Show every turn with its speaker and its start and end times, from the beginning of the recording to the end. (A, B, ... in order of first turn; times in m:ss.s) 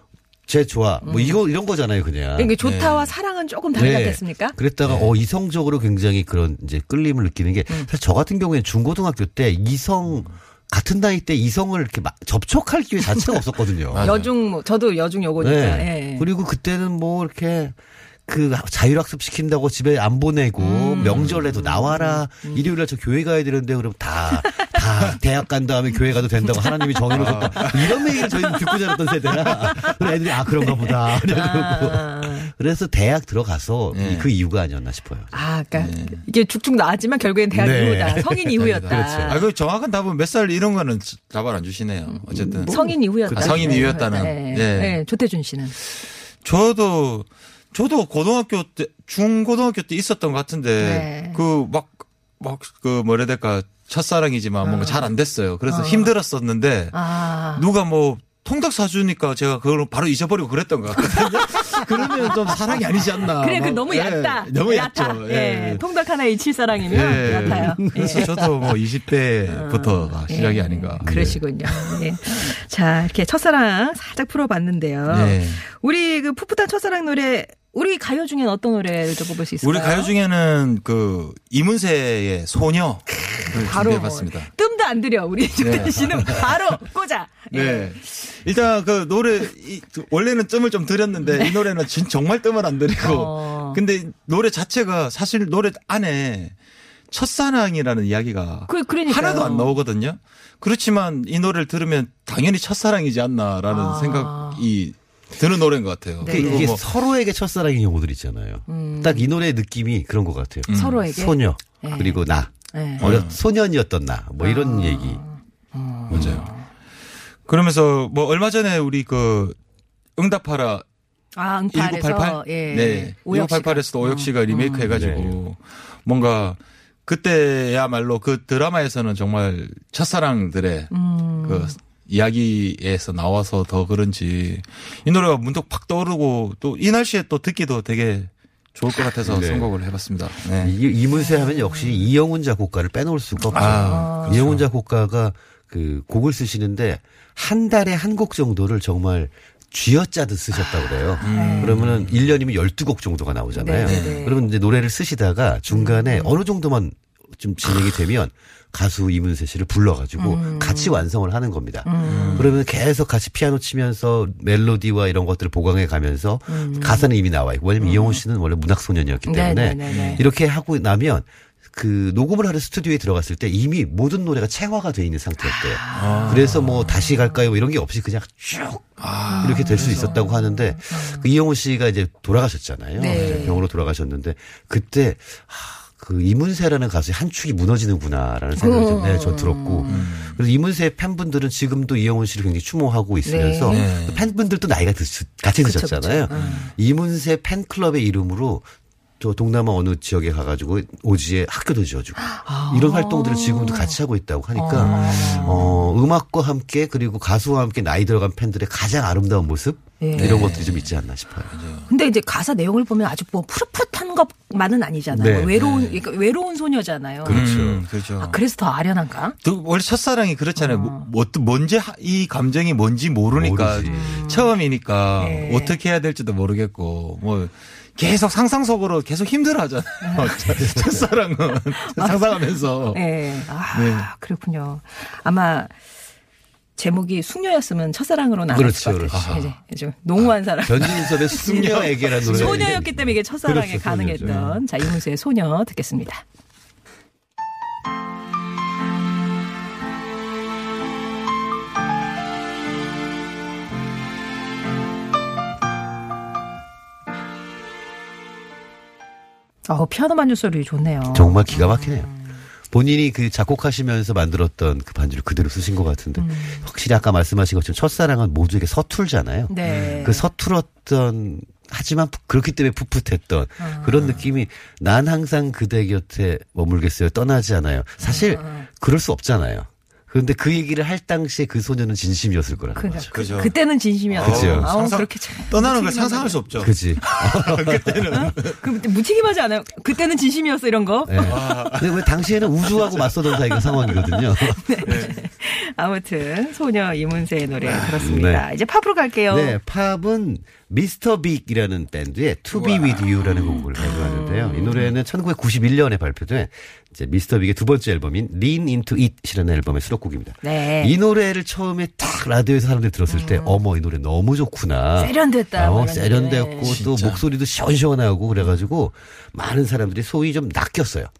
0:00.5-0:02.6 A
0:01.0-0:01.4 B
0:02.4-0:04.6 B
0:02.6-0:03.1 C
0:03.7-0:14.1 A
0:04.8-0:05.1 C
0:13.9-0:14.3 C
0:14.0-0:16.3 B
0:15.4-0:35.3 A
0:20.6-0:22.7 B
0:21.0-0:21.4 C
0:24.3-0:24.7 B
0:26.5-0:32.5 B
0:27.1-0:28.1 C
0:33.9-0:34.3 C
0:35.3-0:39.4 B
0:35.8-0:36.2 C
0:37.5-0:39.4 A
0:38.6-0:45.0 C
0:42.1-0:45.8 B
0:42.6-0:44.0 A
0:45.8-1:05.8 C
0:50.8-0:51.4 B
0:54.6-0:55.1 B
0:55.7-0:56.1 B
0:56.9-0:57.6 B
1:01.1-1:08.3 B
1:06.8-1:12.0 C
1:07.2-1:08.5 A
1:09.5-1:20.1 B
1:11.0-1:11.4 A
1:15.1-1:15.6 C
1:19.6-1:24.5 C
1:23.6-1:28.1 B
1:25.6-1:26.4 C
1:27.5-1:36.6 C
1:31.3-1:31.6 B
1:33.0-1:33.8 B
1:37.1-1:46.8 C
1:38.7-1:39.8 B
1:43.7-1:44.6 B
1:46.2-1:46.7 B
1:46.3-1:55.2 A
1:48.7-1:49.3 B
1:50.7-1:51.0 C
1:50.7-1:53.1 B
1:53.0-1:53.4 C
1:54.4-1:56.7 B
1:56.1-1:56.4 A
1:56.1-1:56.5 C
1:57.5-1:59.6 C
2:00.2-2:00.8 C
2:01.4-2:04.9 B
2:01.7-2:10.9 C
2:04.9-2:05.4 A
2:10.9-2:11.8 B
2:11.4-2:20.8 C
2:19.2-2:19.7 A
2:20.6-3:18.7 A
2:21.2-2:22.0 B
2:23.5-2:24.6 C
2:23.5-2:24.4 B
2:31.2-2:31.7 B
2:31.2-2:32.2 C
2:33.6-2:34.4 B
2:33.8-2:34.2 C
2:35.7-2:36.4 B
2:40.2-2:41.0 B
2:41.8-2:42.5 B
2:42.0-2:42.6 C
2:46.5-2:47.1 B
2:47.8-2:48.2 B
2:49.3-2:50.2 B
2:49.9-2:50.2 C
2:55.4-2:57.3 B
2:56.0-2:57.0 C
2:59.0-3:00.2 C
2:59.3-3:01.3 B
3:03.0-3:03.6 B
3:03.1-3:03.6 C
3:08.6-3:10.1 B
3:09.9-3:10.4 C
3:13.2-3:13.9 B
3:13.7-3:14.2 C
3:15.6-3:16.7 B
3:16.3-3:16.6 C
3:19.2-3:31.6 A
3:22.2-3:24.0 B
3:24.6-3:25.8 B
3:24.7-3:25.8 C
3:30.0-3:30.5 B
3:30.2-3:31.0 C
3:31.5-3:31.9 C
3:31.9-3:37.5 B
3:35.1-3:35.5 A
3:35.5-3:36.0 C
3:37.2-3:37.8 A
3:37.3-3:38.4 C
3:38.2-3:39.4 B
3:39.4-3:53.1 C
3:40.6-3:41.1 B
3:43.3-3:44.1 A
3:43.8-3:44.5 B
3:45.2-3:45.8 B
3:50.0-3:50.6 B
3:50.6-3:51.1 A
3:51.8-3:52.3 B
3:52.9-3:55.8 B
3:53.7-3:54.1 C
3:56.8-4:01.6 B
3:58.5-3:59.2 A
3:59.1-3:59.6 C
4:00.7-4:04.4 A
4:00.9-4:02.7 C
4:02.2-4:06.2 B
4:04.2-4:04.6 C
4:19.7-4:22.4 B
4:21.1-4:22.1 A
4:22.7-4:43.1 A
4:26.2-4:26.7 B
4:29.5-4:30.3 B
4:29.7-4:30.0 C
4:33.6-4:34.0 B
4:33.9-4:34.2 C
4:38.1-4:38.7 B
4:42.8-4:46.4 B
4:43.1-4:43.6 C
4:44.1-4:48.6 C
4:44.2-4:44.7 A
4:46.6-4:48.3 A
4:48.1-4:51.5 B
4:51.1-4:54.8 A
4:51.2-4:53.3 C
4:53.8-4:59.6 B
4:54.8-4:55.2 C
4:57.6-4:57.9 C
4:58.0-4:58.4 A
4:59.3-5:21.1 A
5:02.5-5:03.4 C
5:03.8-5:04.9 B
5:10.4-5:11.0 B
5:13.1-5:13.6 B
5:15.0-5:16.8 B
5:16.7-5:17.2 C